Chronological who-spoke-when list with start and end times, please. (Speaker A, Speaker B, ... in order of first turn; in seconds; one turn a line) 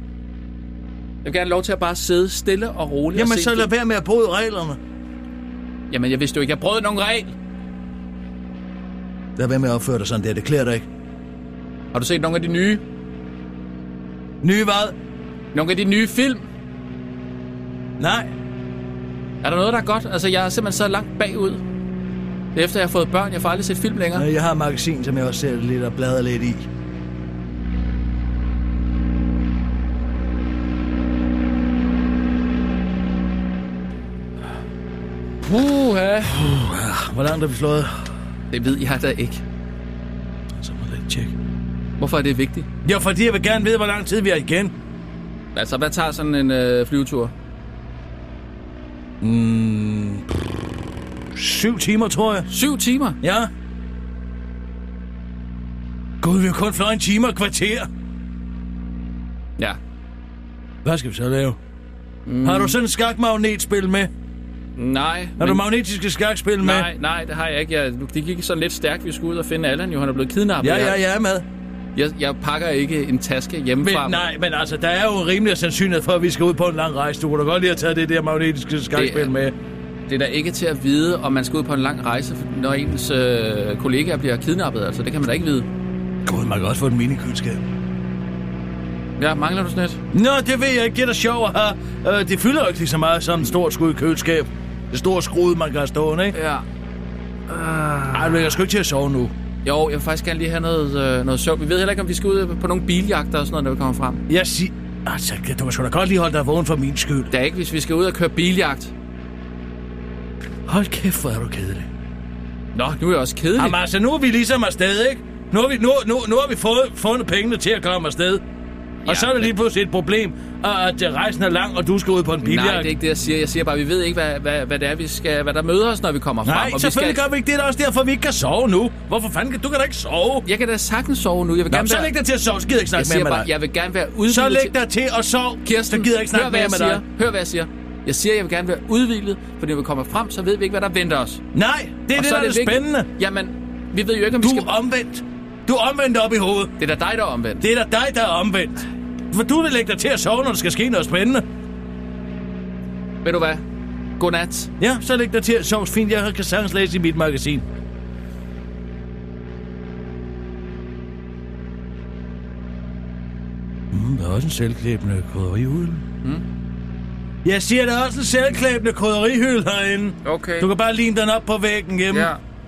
Speaker A: 1.2-3.6
Speaker B: 3.1-4.8
Speaker A: 5.9-7.3
Speaker B: 9.4-10.8
Speaker A: 11.9-12.8
Speaker B: 14.4-14.9
Speaker A: 15.5-16.4
Speaker B: 18.0-18.3
Speaker A: 19.4-21.6
Speaker A: 22.5-24.2
Speaker B: 24.1-26.6
Speaker A: 35.5-36.2
Speaker B: 36.3-37.9
Speaker A: 38.5-39.4
Speaker B: 40.6-41.3
Speaker A: 42.0-42.6
Speaker B: 42.8-44.7
Speaker A: 45.5-47.3
Speaker B: 49.2-50.2
Speaker B: 51.3-52.5
Speaker A: 52.5-53.1
Speaker B: 53.2-53.5
Speaker B: 56.2-57.9
Speaker B: 60.8-61.6
Speaker A: 62.3-62.7
Speaker B: 62.4-64.1
Speaker A: 64.8-65.6
Speaker B: 65.4-66.9
Speaker A: 66.6-71.0
Speaker B: 70.6-71.4
Speaker A: 72.0-74.1
Speaker B: 73.8-79.5
Speaker A: 79.0-79.2
Speaker A: 80.1-85.7
Speaker B: 86.2-87.6
Speaker A: 89.2-90.0
Speaker B: 90.1-96.3
Speaker A: 96.4-96.6
Speaker B: 97.5-99.3
Speaker A: 99.7-104.2
Speaker B: 104.3-107.3
Speaker A: 107.3-108.9
Speaker B: 110.7-111.9
Speaker A: 112.8-113.7
Speaker B: 113.6-118.4
Speaker A: 119.0-119.5
Speaker B: 119.0-122.9
Speaker A: 122.4-127.2
Speaker B: 126.5-130.4
Speaker A: 130.5-132.1
Speaker B: 131.7-133.5
Speaker A: 133.0-134.7
Speaker B: 134.2-137.0
Speaker A: 135.7-141.4
Speaker B: 141.5-143.1
Speaker A: 142.2-144.6
Speaker B: 144.4-146.7
Speaker A: 146.8-147.6
Speaker B: 147.6-148.8
Speaker B: 149.3-151.4
Speaker A: 153.2-153.6
Speaker A: 154.2-154.7
Speaker B: 154.8-157.6
Speaker B: 163.9-166.0
Speaker B: 167.4-172.3
Speaker A: 170.2-170.6